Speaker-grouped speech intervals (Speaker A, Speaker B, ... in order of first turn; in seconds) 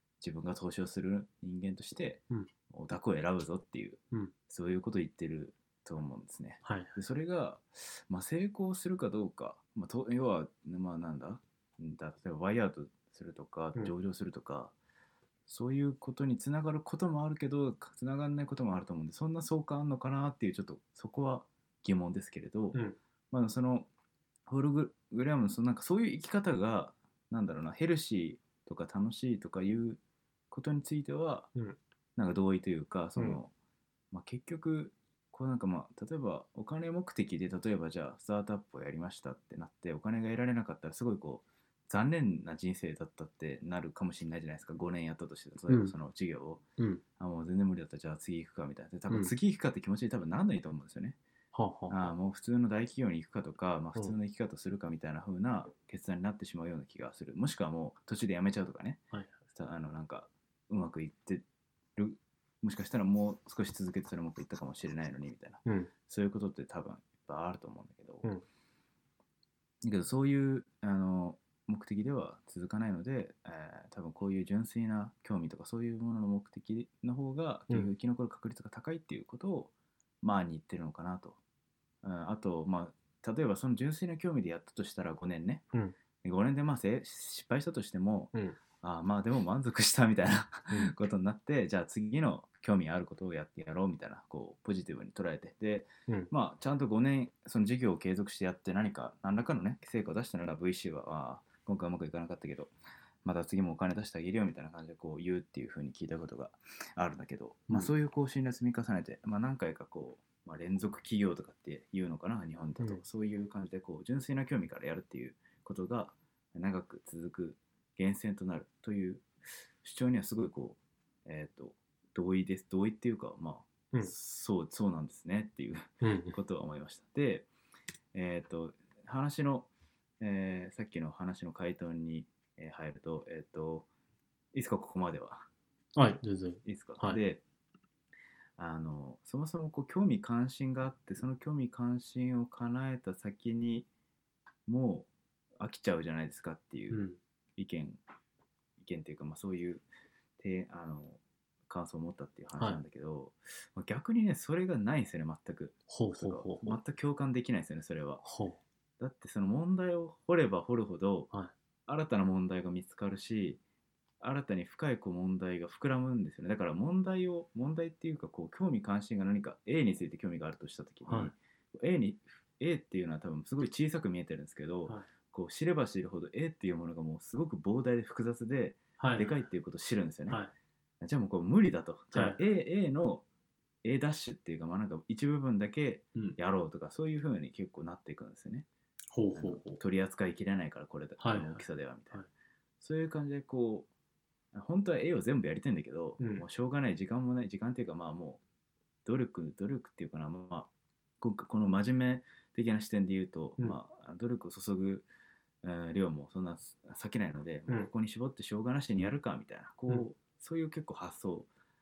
Speaker A: 0.2-14.7, 15.5-23.9, 24.5-31.5, 32.1-33.5, 34.1-46.6, 47.2-51.2, 51.9-59.0, 59.5-61.4, 62.0-68.3, 69.8-79.7, 80.2-81.4, 82.0-85.6, 86.2-119.3, 119.8-127.5, 128.1-129.7, 130.2-133.9, 134.5-135.5, 136.6-137.4, 138.6-143.9, 144.7-147.0, 147.6-148.0, 148.8-149.8, 150.4-158.2, 159.0-161.3, 161.9-163.6, 164.2-180.4, 181.0-183.2, 183.8-188.7, 189.3-192.2, 192.8-193.9, 194.5-198.4, 199.0-200.7, 201.2-205.1, 205.6-211.5
Speaker B: 6.6-7.0, 45.7-45.9, 46.8-47.0, 51.5-52.1, 59.1-59.4, 65.6-65.9, 126.0-126.4, 135.9-137.2, 146.9-147.2, 155.9-156.8, 158.2-158.6, 171.1-171.3, 179.0-179.3, 182.1-182.4, 189.1-189.6, 191.2-192.3, 196.2-196.4